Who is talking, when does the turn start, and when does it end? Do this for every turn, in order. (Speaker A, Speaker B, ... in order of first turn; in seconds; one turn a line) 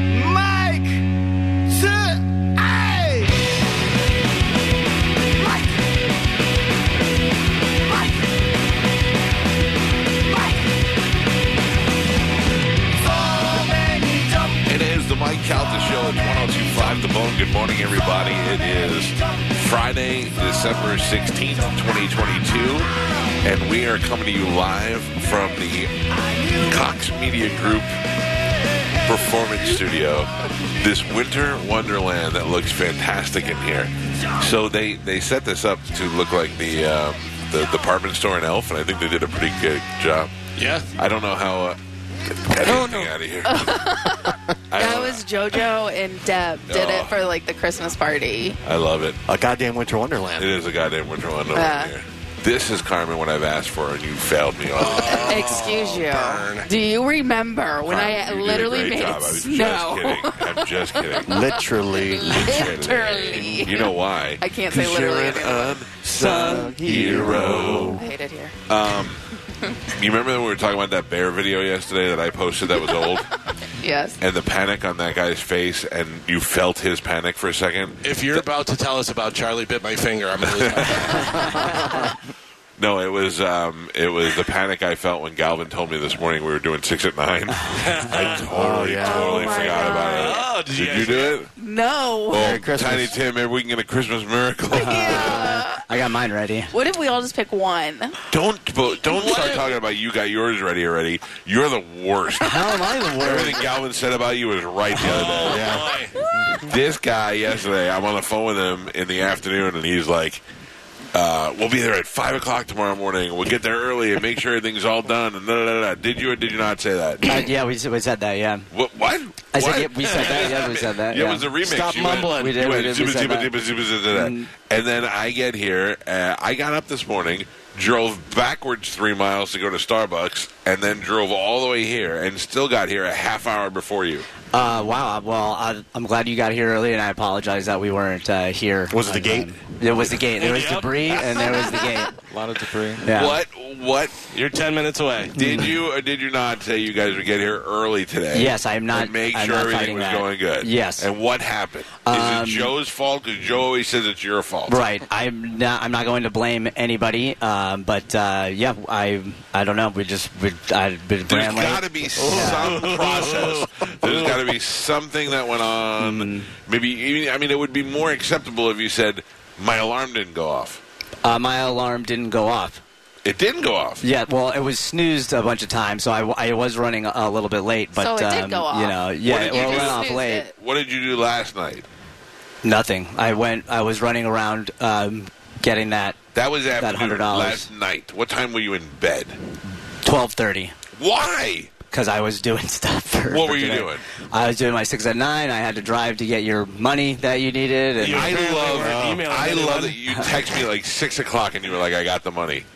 Speaker A: 0.4-0.8
Speaker A: 13.2-14.3
Speaker B: 14.7-22.9
Speaker B: 23.4-25.9
Speaker B: 26.5-27.9
Speaker B: 29.0-40.3
Speaker C: 40.5-40.9
Speaker B: 41.0-43.9
Speaker D: 42.6-43.1
Speaker E: 43.4-48.6
Speaker B: 44.7-45.2
Speaker B: 46.7-47.2
Speaker B: 48.6-49.2
Speaker A: 49.3-50.6
Speaker B: 50.4-56.7
Speaker E: 51.5-51.9
Speaker C: 54.8-56.7
Speaker E: 55.1-65.8
Speaker B: 57.8-61.5
Speaker A: 61.2-62.7
Speaker B: 62.3-68.0
Speaker A: 66.1-68.0
Speaker D: 66.1-67.1
Speaker E: 68.0-68.5
Speaker B: 68.7-69.2
Speaker B: 70.0-73.3
Speaker E: 73.8-74.2
Speaker B: 74.2-78.4
Speaker C: 78.0-81.7
Speaker B: 80.5-81.4
Speaker B: 82.8-91.5
Speaker C: 87.7-88.5
Speaker A: 88.1-89.7
Speaker E: 89.0-90.4
Speaker C: 90.0-91.4
Speaker E: 91.6-92.5
Speaker B: 92.3-95.3
Speaker A: 92.3-93.2
Speaker E: 94.7-95.8
Speaker F: 94.7-96.7
Speaker E: 96.7-98.1
Speaker B: 98.3-105.7
Speaker E: 99.1-99.7
Speaker C: 99.2-99.6
Speaker F: 102.4-103.7
Speaker C: 105.0-106.2
Speaker A: 105.4-105.9
Speaker B: 106.6-110.4
Speaker B: 111.1-117.3
Speaker F: 117.2-118.7
Speaker B: 118.7-134.3
Speaker F: 119.5-121.5
Speaker C: 120.1-120.6
Speaker C: 121.6-122.8
Speaker F: 122.3-123.5
Speaker F: 124.1-124.5
Speaker F: 134.5-142.1
Speaker A: 138.9-139.5
Speaker C: 140.3-141.5
Speaker E: 141.6-141.9
Speaker D: 142.3-143.1
Speaker F: 143.0-143.4
Speaker B: 143.1-144.2
Speaker C: 144.3-145.4
Speaker F: 145.3-145.7
Speaker B: 145.3-154.8
Speaker F: 148.3-151.1
Speaker F: 152.0-152.7
Speaker F: 154.7-163.0
Speaker B: 161.2-170.8
Speaker C: 162.2-164.5
Speaker F: 166.0-166.5
Speaker F: 171.2-172.8
Speaker B: 173.2-174.0
Speaker F: 174.0-180.5
Speaker E: 177.9-180.5
Speaker B: 179.2-181.9
Speaker F: 182.6-186.2
Speaker B: 186.3-189.4
Speaker F: 186.8-187.7
Speaker F: 190.0-190.7
Speaker B: 191.0-191.7
Speaker F: 191.9-198.3
Speaker B: 193.3-194.0
Speaker C: 198.0-200.0
Speaker B: 198.1-202.7